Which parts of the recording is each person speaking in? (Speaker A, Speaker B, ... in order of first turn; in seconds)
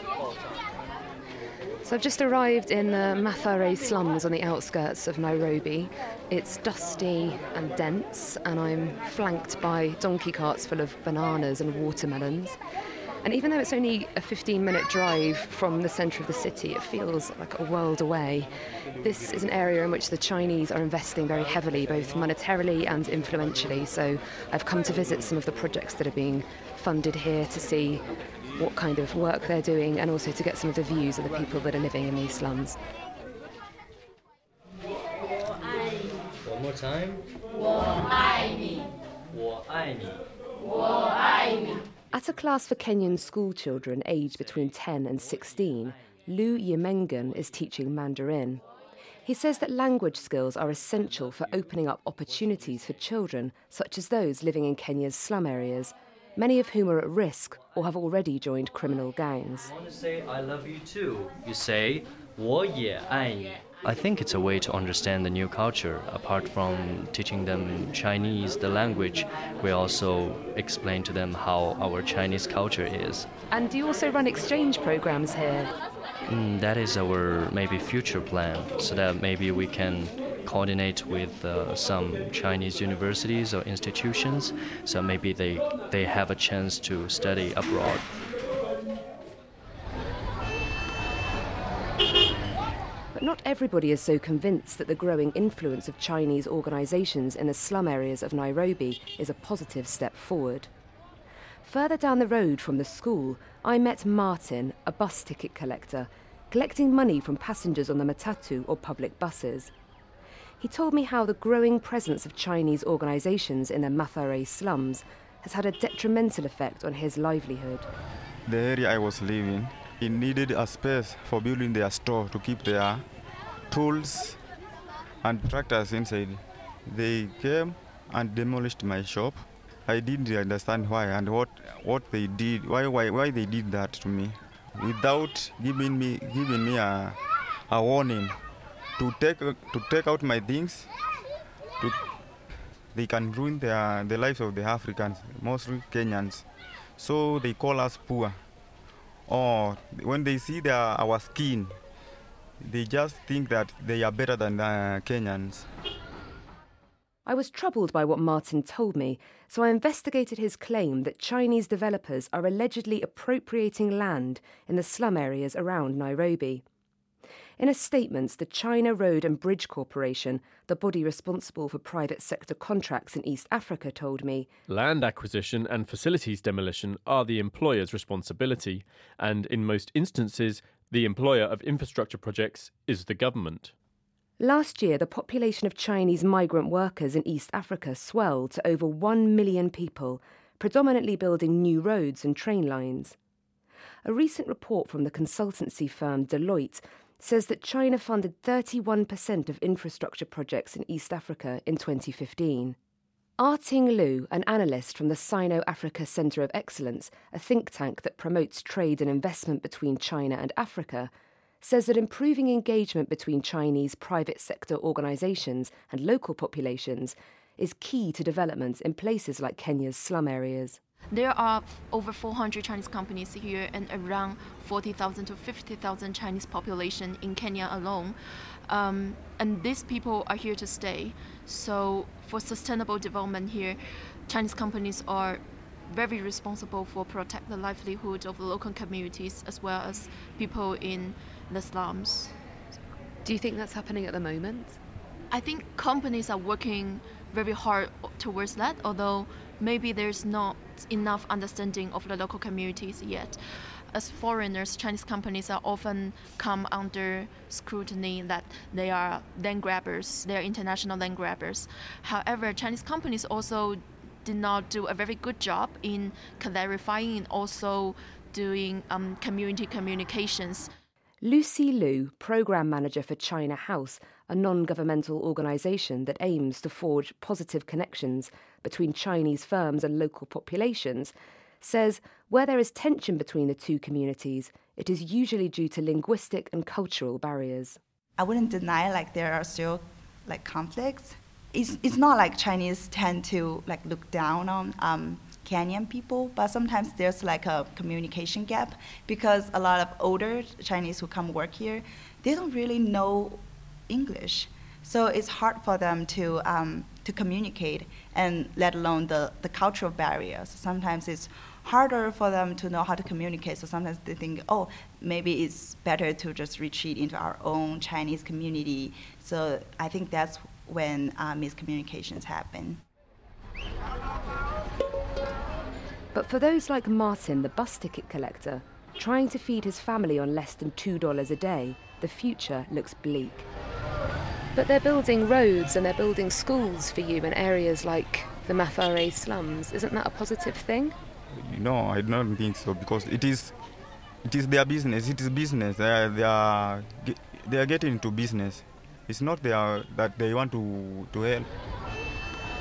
Speaker A: 1.8-12.6, 13.2-28.0, 28.6-32.8, 42.1-48.6, 49.2-59.7, 73.5-75.7, 93.2-100.7, 101.6-109.7, 110.6-117.9, 157.3-166.6, 167.6-174.5, 184.4-193.2, 194.1-202.8, 203.4-211.1, 211.6-220.8, 243.2-244.8, 271.2-287.8, 326.1-333.5, 334.6-340.9
Speaker B: 36.4-37.3, 38.1-38.7, 39.3-40.2, 59.7-73.3, 76.3-88.1
Speaker C: 118.5-123.0, 123.7-124.4, 125.2-137.2, 137.7-138.4, 139.0-140.9, 142.9-146.4, 147.0-148.4, 149.3-151.8, 152.6-155.7, 341.4-343.6, 344.2-351.5
Speaker D: 174.7-183.7
Speaker E: 221.1-228.2, 228.7-242.3, 245.3-253.4, 253.9-270.7
Speaker F: 288.2-322.8